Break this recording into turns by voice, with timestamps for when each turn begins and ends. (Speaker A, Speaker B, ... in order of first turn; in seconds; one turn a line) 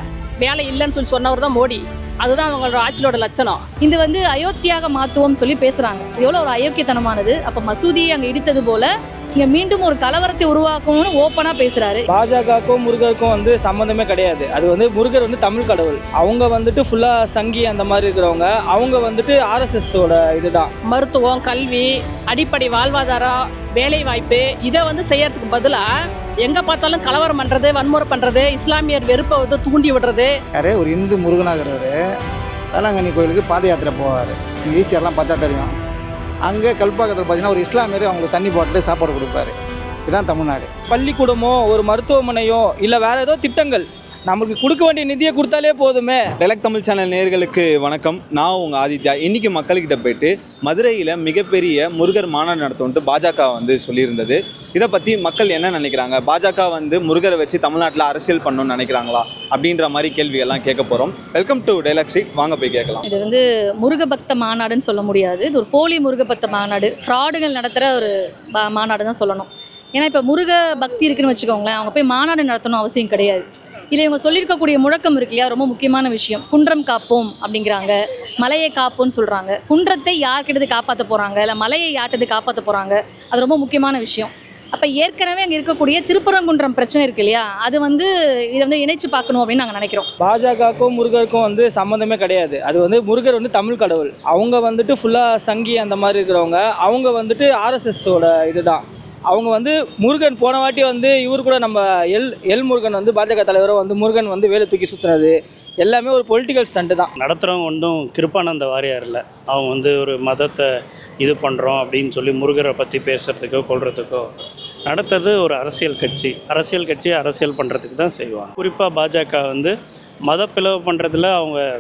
Speaker A: 0.4-3.6
Speaker B: 3.8-12.1
Speaker C: 12.1-20.7
Speaker A: 20.9-25.9
Speaker A: 26.4-30.3
Speaker D: 30.6-32.0
Speaker D: 32.7-35.7
Speaker D: 36.5-39.5
Speaker D: 40.1-40.7
Speaker C: 40.9-46.2
Speaker E: 46.4-63.0
Speaker B: 63.1-90.1
Speaker C: 90.2-107.1
Speaker F: 107.2-110.7
Speaker F: 111.2-114.3
Speaker F: 114.9-119.7
Speaker F: 120.3-121.6